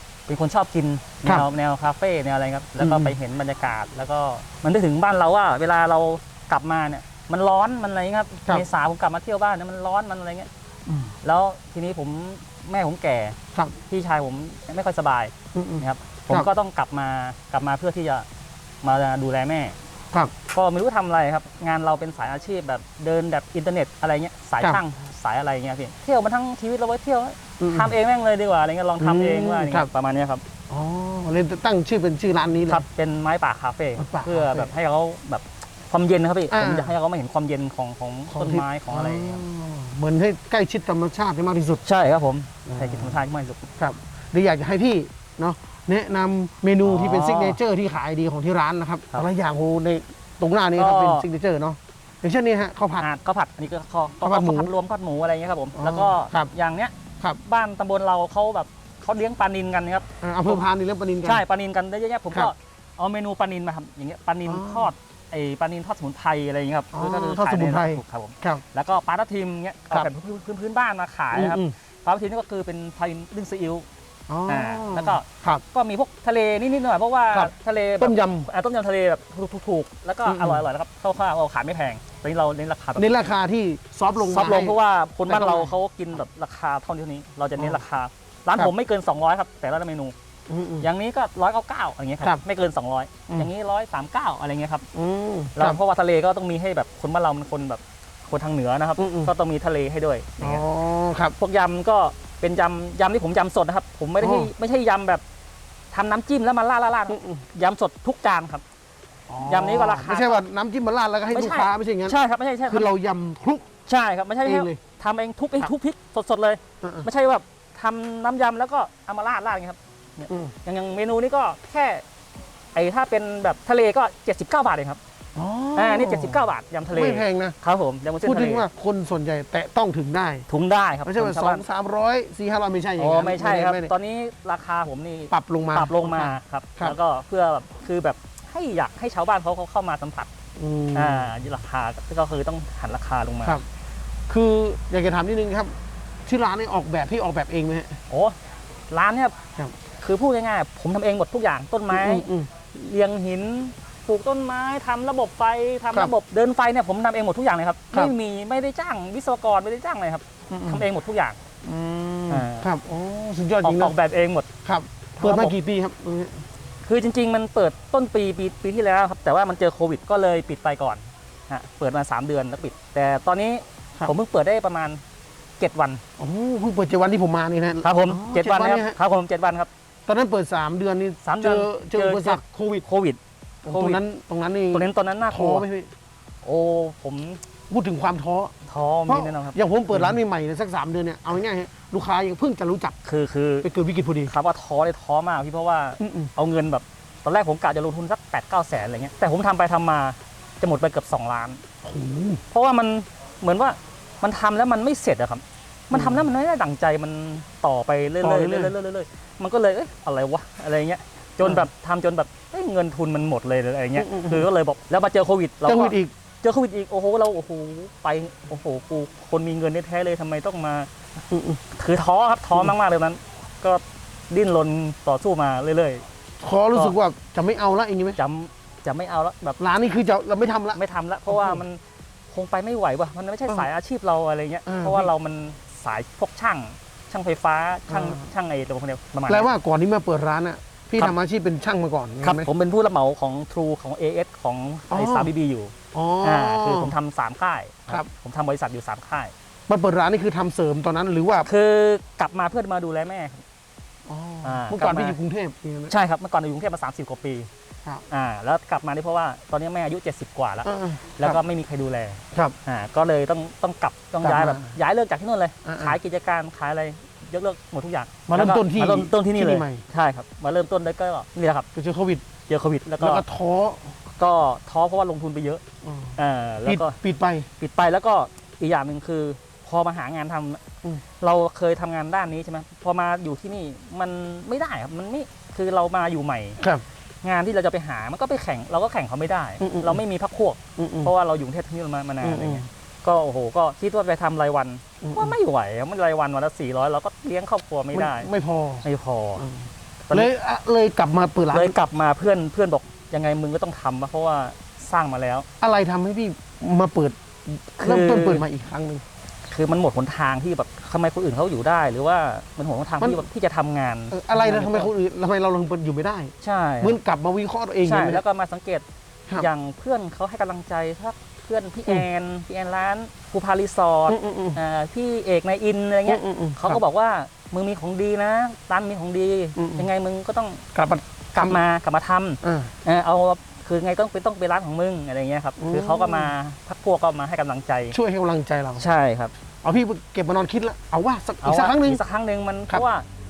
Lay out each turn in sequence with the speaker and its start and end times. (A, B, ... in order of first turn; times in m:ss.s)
0:00.3-0:10.5 A
0:02.8-0:03.2 B
0:10.9-0:11.1 B
0:11.2-0:13.4 A
0:13.9-0:18.3 A
0:15.5-0:16.5 B
0:18.8-0:19.8 A
0:20.5-0:30.4 A
0:27.6-0:27.9 B
0:29.0-0:29.9 B
0:30.7-0:32.8 B
0:32.7-0:39.5 A
0:34.0-0:34.7 B
0:36.5-0:36.9 B
0:38.3-0:41.8 B
0:41.8-0:43.6 A
0:42.7-0:43.2 B
0:43.8-0:53.1 B
0:46.8-0:47.6 A
0:50.8-0:51.3 A
0:53.0-1:00.6 A
0:54.2-0:54.7 B
0:55.8-0:56.5 B
1:00.2-1:01.4 B
1:01.2-1:13.9 A
1:04.4-1:04.9 B
1:06.9-1:08.6 B
1:11.3-1:11.7 B
1:14.3-1:15.6 B
1:14.5-1:23.1 A
1:17.3-1:18.5 B
1:20.3-1:20.6 B
1:23.0-1:24.8 B
1:24.2-1:30.2 A
1:25.3-1:25.7 B
1:27.6-1:27.8 B
1:30.5-1:30.9 B
1:30.8-1:34.8 A
1:34.9-1:35.8 B
1:35.6-1:40.6 A
1:39.0-1:39.3 B
1:40.4-1:41.4 B
1:41.4-1:45.2 A
1:44.2-1:44.5 B
1:45.9-1:48.6 A
1:47.1-1:47.4 B
1:49.3-1:53.7 B
1:49.4-1:50.4 A
1:51.3-1:52.9 A
1:53.9-2:02.0 A
1:54.4-1:54.8 B
1:56.8-1:57.1 B
2:00.3-2:00.5 B
2:02.7-2:05.0 A
2:05.4-2:07.6 B
2:05.8-2:08.7 A
2:08.2-2:10.5 B
2:10.5-2:11.6 A
2:11.0-2:13.9 B
2:13.0-2:20.3 A
2:15.3-2:17.0 B
2:20.6-2:21.4 B
2:20.9-2:23.6 A
2:24.3-2:25.7 B
2:26.3-2:28.0 B
2:28.1-2:28.4 A
2:28.9-2:29.4 A
2:30.0-2:41.4 A
2:31.9-2:32.5 B
2:40.5-2:40.9 B
2:41.6-2:44.0 B
2:42.3-2:42.7 A
2:43.6-2:44.5 A
2:44.6-2:46.4 B
2:45.2-2:45.5 A
2:46.8-2:55.0 A
2:55.6-2:56.0 A
2:56.2-2:59.0 B
2:57.8-2:59.7 A
3:00.1-3:02.8 B
3:01.2-3:04.0 A
3:03.6-3:05.9 B
3:04.7-3:05.7 A
3:06.4-3:07.4 A
3:07.7-3:08.5 B
3:08.7-3:10.2 A
3:09.1-3:13.0 B
3:13.0-3:13.7 A
3:13.6-3:14.3 B
3:14.3-3:21.6 A
3:16.0-3:16.3 B
3:21.8-3:22.4 B
3:22.5-3:40.9 A
3:25.9-3:26.2 B
3:28.2-3:28.7 B
3:34.0-3:34.5 B
3:35.6-3:36.1 B
3:41.3-3:41.6 B
3:41.7-3:46.0 A
3:46.4-3:48.2 B
3:48.2-3:49.6 A
3:49.6-3:51.6 B
3:50.7-3:59.5 A
3:54.7-3:55.1 B
3:57.9-3:58.2 B
3:59.3-4:02.5 B
4:02.2-4:09.3 A
4:04.9-4:05.3 B
4:05.9-4:07.0 B
4:09.7-4:11.5 B
4:11.4-4:13.4 A
4:14.1-4:15.9 B
4:14.4-4:15.2 A
4:15.9-4:17.5 A
4:18.1-4:31.7 A
4:20.6-4:21.4 B
4:24.2-4:24.8 B
4:25.6-4:26.0 B
4:28.3-4:29.8 B
4:31.8-4:32.3 B
4:32.5-4:33.2 A
4:33.0-4:34.0 B
4:34.2-4:35.6 A
4:35.8-4:37.5 B
4:36.2-4:37.0 A
4:37.6-4:40.6 A
4:41.2-4:46.6 A
4:47.2-4:58.3 A
4:49.6-4:50.0 B
4:50.8-4:51.1 B
4:52.2-4:52.6 B
4:55.0-4:55.4 B
4:57.9-4:58.8 B
4:58.8-4:59.5 A
4:59.4-5:01.8 B
5:01.5-5:05.5 A
5:05.6-5:09.0 B
5:07.8-5:08.5 A
5:09.5-5:14.9 A
5:13.0-5:13.2 B
5:14.1-5:18.2 B
5:16.4-5:17.0 A
5:17.8-5:18.8 A
5:19.4-5:30.6 A
5:24.1-5:24.6 B
5:26.1-5:26.8 B
5:29.6-5:29.9 B
5:30.7-5:31.6 B
5:31.4-5:38.0 A
5:32.4-5:32.7 B
5:35.6-5:36.3 B
5:37.9-5:38.9 B
5:38.8-5:39.3 A
5:39.6-5:42.0 B
5:41.4-5:43.1 A